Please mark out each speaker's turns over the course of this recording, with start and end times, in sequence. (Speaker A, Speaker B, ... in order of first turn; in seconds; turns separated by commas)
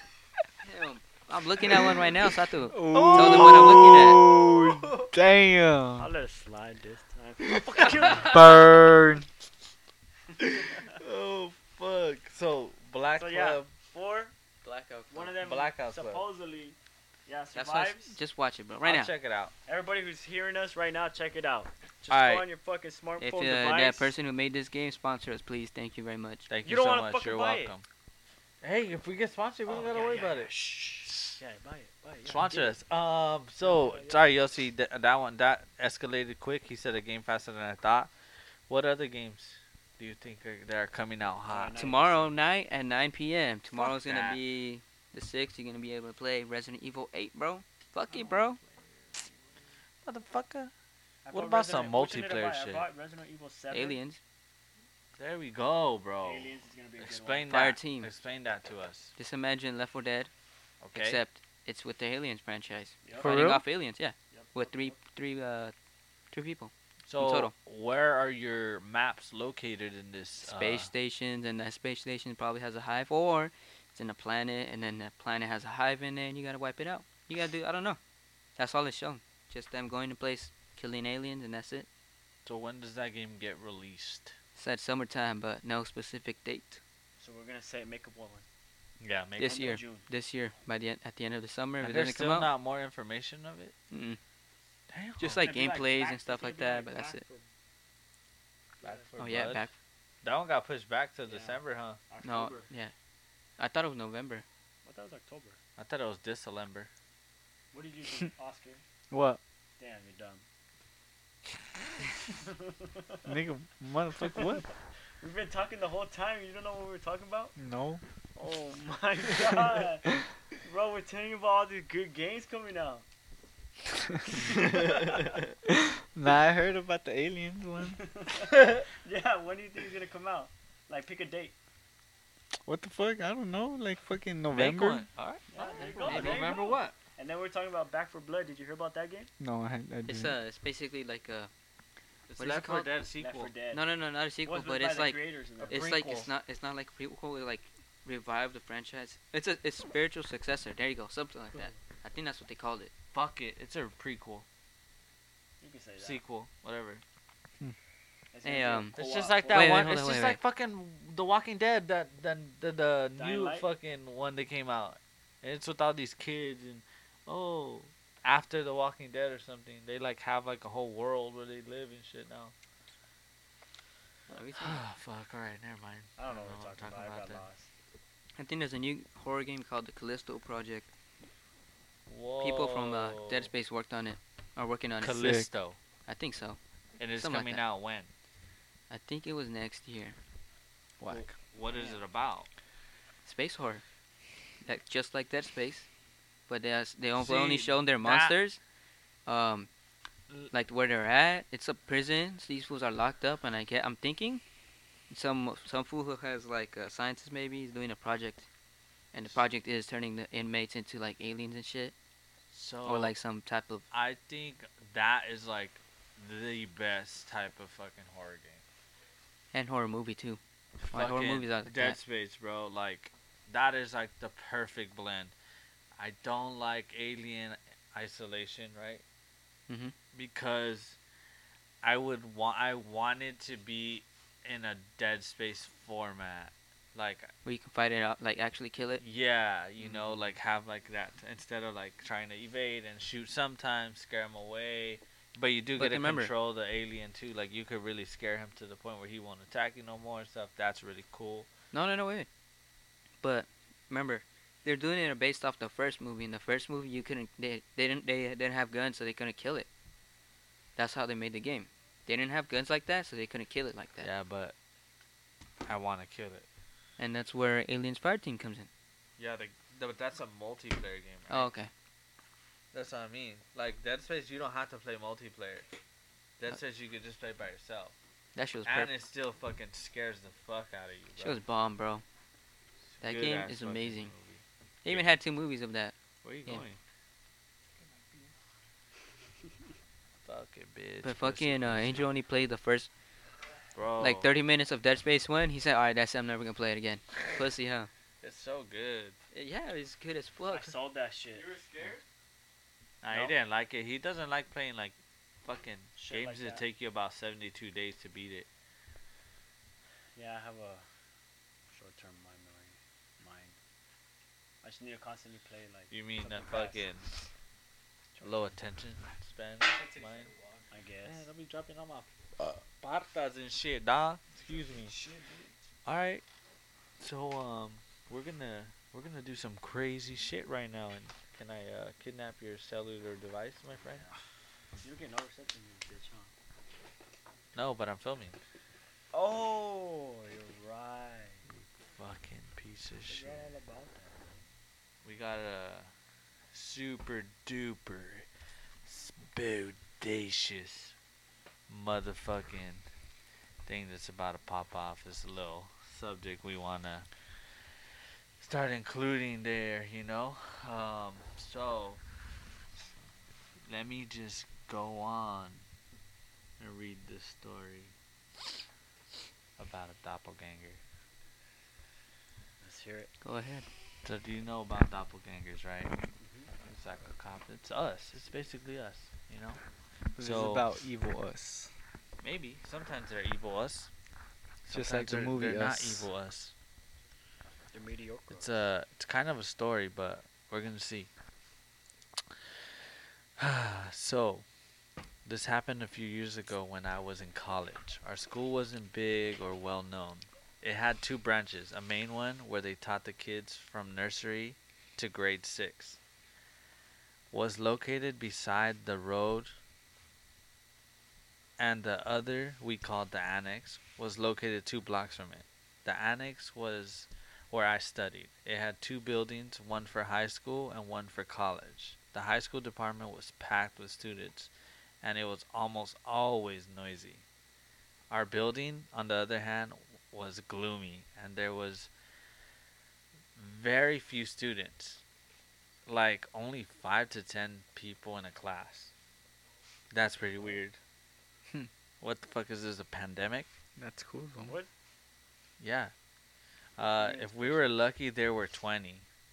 Speaker A: 0.6-4.2, Speaker B: 2.7-6.1, Speaker C: 2.9-5.1, Speaker D: 6.0-8.4, Speaker B: 8.1-9.3, Speaker C: 10.4-13.7, Speaker D: 13.2-14.3, Speaker A: 14.6-15.3, Speaker D: 15.1-18.2, Speaker C: 15.3-16.2, Speaker A: 17.5-19.1, Speaker C: 18.8-19.5, Speaker D: 19.7-24.1, Speaker C: 22.1-22.5, Speaker A: 23.2-26.5, Speaker C: 26.5-27.9, Speaker D: 26.6-27.7, Speaker C: 28.6-31.3, Speaker D: 29.7-32.8, Speaker C: 32.2-38.1, Speaker D: 33.6-34.3, Speaker C: 38.7-41.8, Speaker D: 41.5-42.4, Speaker A: 41.8-48.6, Speaker C: 43.7-44.4, Speaker D: 48.1-49.5, Speaker C: 50.0-50.7, Speaker D: 51.2-54.0, Speaker C: 51.3-52.9, Speaker A: 53.7-54.2, Speaker C: 55.2-59.1, Speaker D: 56.2-57.5, Speaker A: 57.5-58.1, Speaker A: 59.2-60.3, Speaker C: 60.8-61.2, Speaker A: 60.9-65.7, Speaker D: 63.0-63.4, Speaker B: 63.2-63.6, Speaker D: 64.3-65.0, Speaker A: 66.3-67.5, Speaker C: 67.1-70.9, Speaker A: 70.4-78.0, Speaker A: 78.6-81.9, Speaker C: 82.5-84.3, Speaker A: 84.6-86.8, Speaker D: 87.2-88.5, Speaker C: 89.0-89.6, Speaker A: 89.4-92.5, Speaker D: 89.4-90.1, Speaker C: 91.8-93.8, Speaker A: 93.9-94.2, Speaker C: 94.9-95.5, Speaker A: 95.2-97.2, Speaker D: 95.3-97.5, Speaker C: 98.8-99.7, Speaker D: 98.8-99.1, Speaker A: 99.2-99.7, Speaker C: 100.2-102.0, Speaker D: 101.3-102.7, Speaker A: 102.2-102.9, Speaker A: 103.6-104.5, Speaker D: 104.8-105.6, Speaker C: 105.8-106.9, Speaker D: 107.7-108.8, Speaker B: 109.1-109.4, Speaker D: 109.8-110.4, Speaker D: 112.4-113.3, Speaker B: 113.2-114.7, Speaker D: 114.2-114.7, Speaker D: 115.2-117.6, Speaker B: 117.6-118.0, Speaker D: 118.4-123.0, Speaker D: 124.5-125.2, Speaker B: 125.7-128.0, Speaker D: 128.0-131.6, Speaker B: 132.7-135.1, Speaker C: 134.5-137.0, Speaker D: 135.5-139.3, Speaker A: 136.0-136.7, Speaker B: 139.4-140.4, Speaker A: 140.1-141.5, Speaker C: 142.3-143.5, Speaker A: 142.3-142.9, Speaker D: 143.2-143.8, Speaker A: 143.7-152.9, Speaker D: 144.4-145.9, Speaker C: 145.6-146.3, Speaker C: 153.1-154.5, Speaker D: 155.6-156.2, Speaker C: 156.0-157.0, Speaker D: 158.3-159.9, Speaker A: 158.4-159.0, Speaker C: 158.9-172.5, Speaker A: 159.5-160.4, Speaker D: 163.2-163.7, Speaker A: 174.3-174.8, Speaker C: 174.3-177.4, Speaker D: 176.2-177.7, Speaker A: 178.4-180.9, Speaker C: 182.1-183.5, Speaker A: 182.4-185.3, Speaker C: 185.0-185.8, Speaker B: 185.2-185.5, Speaker A: 186.1-186.6, Speaker C: 187.0-188.1, Speaker A: 187.2-187.6, Speaker A: 188.9-190.2, Speaker B: 191.0-191.2, Speaker C: 191.1-192.5, Speaker D: 191.7-192.0, Speaker A: 193.2-193.8, Speaker A: 194.7-195.9, Speaker A: 196.5-198.6, Speaker C: 197.2-198.3, Speaker A: 199.3-199.7, Speaker A: 200.5-204.4, Speaker A: 205.1-208.5, Speaker A: 209.1-211.9, Speaker C: 212.5-213.1, Speaker A: 212.8-213.9, Speaker C: 213.9-218.6, Speaker A: 219.5-220.4, Speaker C: 220.8-225.3, Speaker A: 220.9-222.0, Speaker C: 226.0-229.0, Speaker A: 229.7-229.9, Speaker C: 230.1-231.0, Speaker C: 231.8-237.3, Speaker A: 237.4-239.0, Speaker C: 239.0-251.5, Speaker A: 239.8-240.2, Speaker A: 245.8-246.3, Speaker A: 251.7-252.3, Speaker A: 253.2-259.7, Speaker A: 260.8-264.1, Speaker C: 264.0-264.6, Speaker C: 265.6-266.5, Speaker A: 267.0-268.7, Speaker C: 269.2-271.5, Speaker A: 271.3-271.7, Speaker C: 272.7-275.7, Speaker C: 276.4-278.0, Speaker A: 278.4-278.9, Speaker C: 278.7-281.4, Speaker A: 281.2-282.0, Speaker C: 282.9-285.1, Speaker A: 283.0-284.1, Speaker A: 284.8-285.9, Speaker C: 286.2-286.8, Speaker C: 290.2-292.1, Speaker A: 291.0-292.9, Speaker C: 293.8-294.3, Speaker A: 294.0-297.9, Speaker C: 298.2-299.2, Speaker A: 299.3-300.7, Speaker D: 300.5-301.6, Speaker B: 301.4-302.0, Speaker C: 303.0-308.5, Speaker D: 303.1-303.4, Speaker D: 306.0-306.7, Speaker D: 310.2-310.9, Speaker D: 311.7-313.6, Speaker D: 314.6-316.9, Speaker C: 315.9-317.2, Speaker D: 318.2-318.5, Speaker C: 318.2-320.4, Speaker D: 320.7-321.3, Speaker C: 321.0-325.0, Speaker D: 324.4-325.5, Speaker C: 325.9-326.2, Speaker C: 327.0-334.1, Speaker D: 333.9-334.2, Speaker D: 334.8-336.3, Speaker C: 337.5-338.4, Speaker D: 339.1-341.5, Speaker C: 342.0-343.5, Speaker D: 343.1-344.5, Speaker C: 345.0-345.9, Speaker C: 346.5-348.3, Speaker C: 348.9-350.9, Speaker C: 351.7-352.8, Speaker C: 353.6-357.1, Speaker C: 358.4-362.0, Speaker C: 363.7-365.6, Speaker C: 366.6-367.9, Speaker C: 369.6-370.8, Speaker D: 372.6-373.1, Speaker A: 373.2-373.7, Speaker C: 374.0-376.0, Speaker D: 376.2-376.5, Speaker C: 376.6-379.6, Speaker B: 380.2-381.7, Speaker C: 380.2-380.7, Speaker C: 382.2-383.9, Speaker C: 384.7-386.5, Speaker B: 384.7-386.1, Speaker D: 387.7-388.7, Speaker C: 388.3-391.1, Speaker C: 393.4-394.5, Speaker C: 395.2-406.0, Speaker C: 407.3-409.5, Speaker C: 411.6-424.5, Speaker C: 425.0-427.2, Speaker C: 428.1-431.9, Speaker C: 433.4-435.0, Speaker C: 435.9-438.9, Speaker C: 439.9-440.8, Speaker C: 442.0-443.5, Speaker B: 443.8-444.6, Speaker C: 445.6-445.9, Speaker C: 446.8-449.1, Speaker D: 446.9-447.7